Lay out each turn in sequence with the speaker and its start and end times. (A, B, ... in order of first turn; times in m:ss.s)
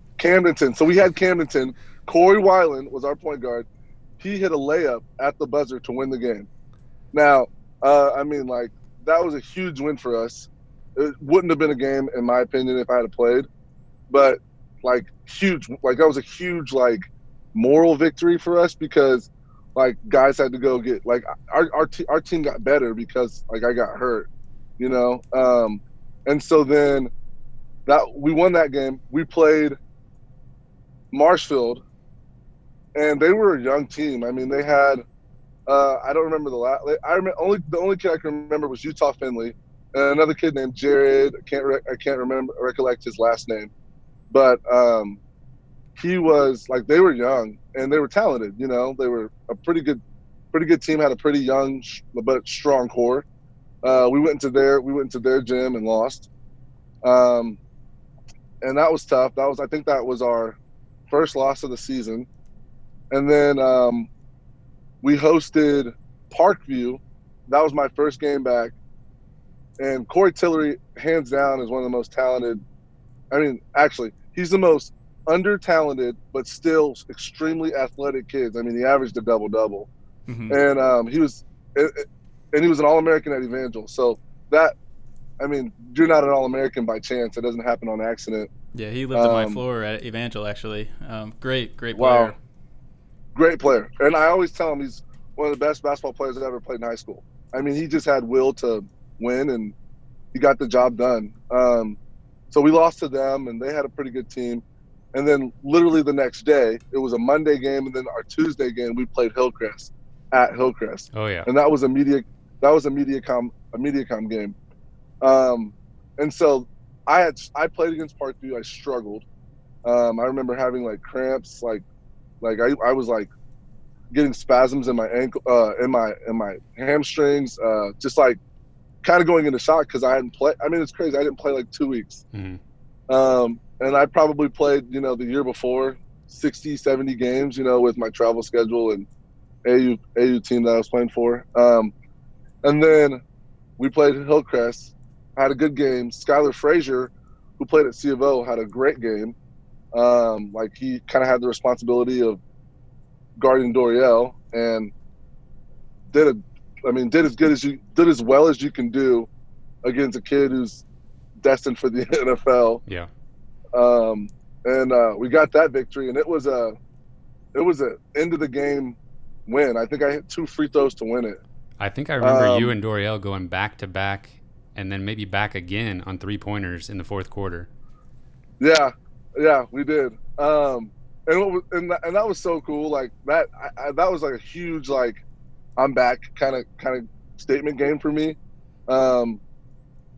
0:00.2-0:03.7 A
0:04.2-0:06.5 A
0:07.1-0:13.5 A
0:14.1-0:17.0 A
0:17.5-0:24.3 A
0:24.8-0:27.1 A
0:27.9-0:29.8 A
0:31.1-0:31.8 A
0:33.0-0:35.0 A
0:35.7-0:43.7 A
0:44.3-0:45.2 A
0:46.0-0:50.0 A
0:50.5-0:53.2 A
0:53.8-0:56.3 A
0:57.0-0:57.6 A
0:58.6-1:00.6 A
1:01.1-1:02.3 A
1:03.1-1:04.1 A
1:05.0-1:08.7 A
1:09.8-1:12.6 A
1:13.3-1:19.9 A
1:20.3-1:20.6 B
1:20.5-1:24.7 A
1:25.4-1:28.5 A
1:28.7-1:32.4 B
1:29.1-1:29.6 A
1:31.9-1:32.3 A
1:33.4-1:39.7 A
1:40.3-1:42.0 A
1:42.5-1:44.6 A
1:45.1-1:54.6 A
1:51.1-1:51.5 C
1:55.2-1:59.2 A
1:59.8-2:01.8 A
2:02.4-2:03.3 A
2:04.1-2:08.4 A
2:09.0-2:12.2 A
2:12.3-2:12.6 C
2:13.1-2:19.1 A
2:19.6-2:21.9 A
2:22.6-2:23.2 A
2:23.8-2:29.4 A
2:29.9-2:32.4 A
2:33.4-2:34.9 A
2:36.1-2:39.3 A
2:39.8-2:40.8 A
2:41.4-2:42.8 A
2:43.7-2:46.8 A
2:47.5-2:51.4 A
2:51.8-2:57.7 C
2:52.2-2:52.7 A
2:58.6-3:05.2 A
3:05.8-3:08.4 A
3:08.9-3:09.4 A